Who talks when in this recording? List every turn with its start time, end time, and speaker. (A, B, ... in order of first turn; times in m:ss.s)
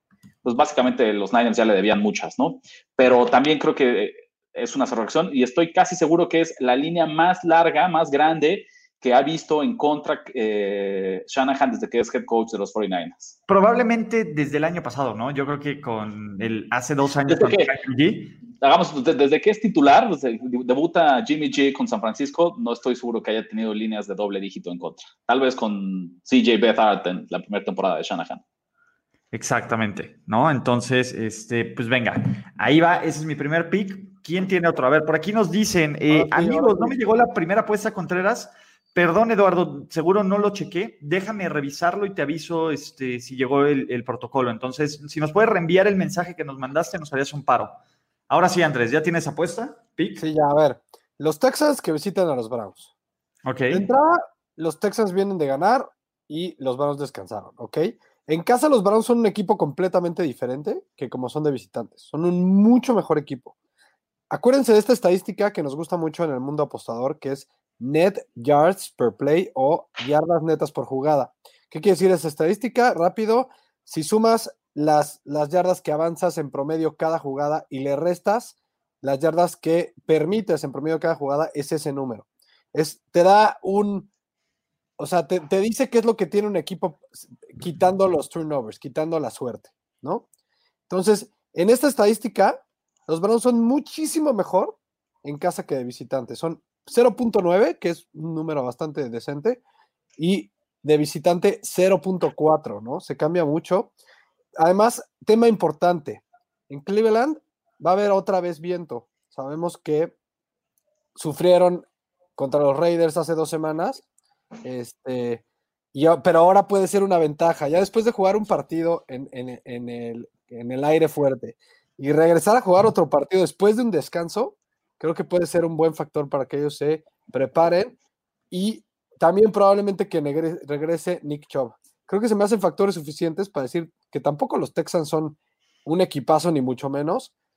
0:00.4-0:13.3 A
0:13.5-0:18.4 B
0:17.3-0:17.7 A
0:18.6-0:28.4 A
0:29.3-0:50.2 B
0:36.1-0:37.0 C
0:50.2-0:52.9 C
0:53.4-0:53.9 B
0:53.7-1:03.5 C
1:04.3-1:24.1 C
1:25.0-1:30.2 C
1:30.9-1:39.6 C
1:40.2-1:43.9 C
1:44.6-1:50.1 C
1:51.1-1:51.8 C
1:52.4-1:54.0 C
1:54.6-1:55.4 C
1:55.9-2:07.9 C
2:08.5-2:17.3 C